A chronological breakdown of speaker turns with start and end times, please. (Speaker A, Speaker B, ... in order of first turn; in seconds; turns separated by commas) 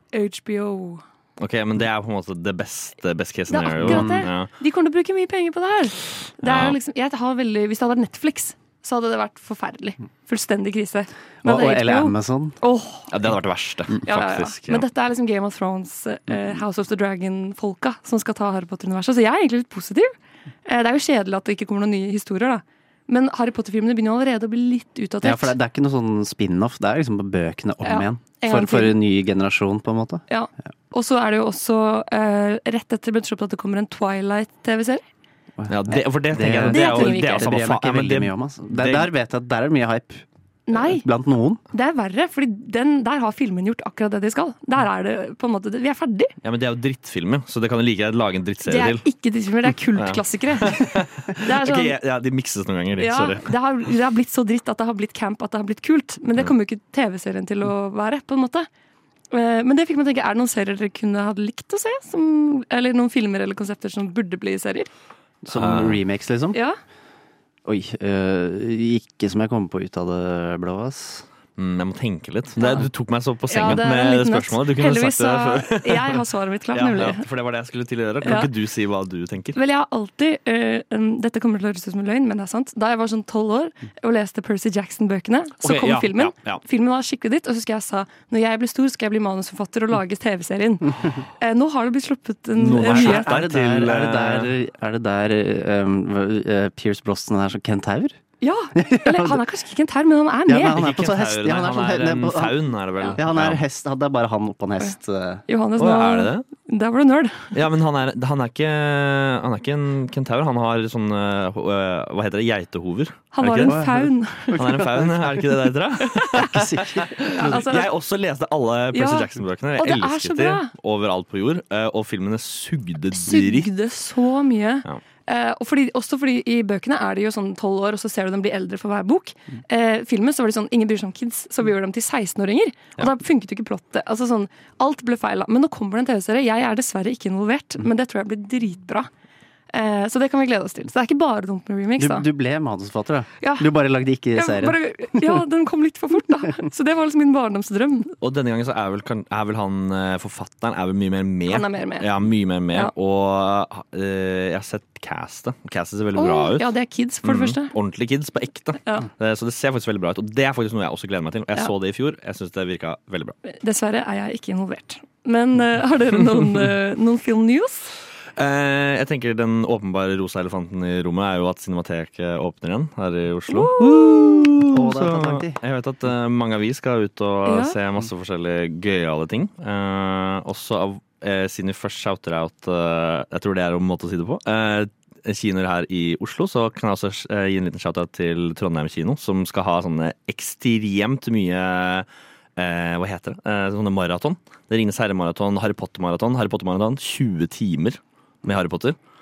Speaker A: 0.1-1.0, Speaker B: 1.4-4.5, Speaker A: 3.5-13.1, Speaker C: 3.9-4.2, Speaker B: 6.4-6.8, Speaker C: 11.4-12.6, Speaker B: 13.1-14.8, Speaker A: 14.0-20.1, Speaker A: 20.6-25.6, Speaker C: 25.2-30.2, Speaker A: 27.8-29.0, Speaker A: 30.3-35.0, Speaker C: 35.6-41.6, Speaker B: 35.7-39.1, Speaker A: 36.6-37.5, Speaker A: 40.7-41.0, Speaker A: 41.7-46.3, Speaker B: 46.4-49.0, Speaker A: 48.7-51.9, Speaker B: 50.0-53.5, Speaker A: 53.0-58.7, Speaker A: 59.3-64.9, Speaker C: 65.4-66.6, Speaker B: 65.5-66.0, Speaker A: 66.5-66.8, Speaker C: 67.6-71.2, Speaker B: 71.6-76.2, Speaker A: 72.6-72.8, Speaker A: 73.5-77.2, Speaker B: 76.7-79.6, Speaker A: 78.2-78.5, Speaker A: 79.5-93.3, Speaker B: 85.6-86.6, Speaker B: 92.6-94.5, Speaker C: 92.6-98.2, Speaker A: 98.4-100.8, Speaker C: 98.7-99.4, Speaker C: 100.5-105.4, Speaker B: 100.7-103.6, Speaker A: 105.5-107.5, Speaker B: 105.8-106.4, Speaker B: 107.5-113.8, Speaker A: 113.3-114.6, Speaker C: 113.7-115.5, Speaker B: 114.5-123.7, Speaker C: 116.3-117.8, Speaker A: 117.3-117.9, Speaker A: 118.9-119.3, Speaker A: 119.8-120.7, Speaker A: 123.1-139.1, Speaker A: 139.7-142.2, Speaker C: 142.0-145.3, Speaker A: 143.4-143.7, Speaker A: 144.3-148.1, Speaker B: 148.2-156.7, Speaker A: 151.5-152.1, Speaker A: 156.2-157.7, Speaker B: 157.2-163.3, Speaker A: 163.4-167.9, Speaker B: 168.4-199.0, Speaker A: 173.5-174.1, Speaker C: 174.7-175.6, Speaker A: 177.4-177.8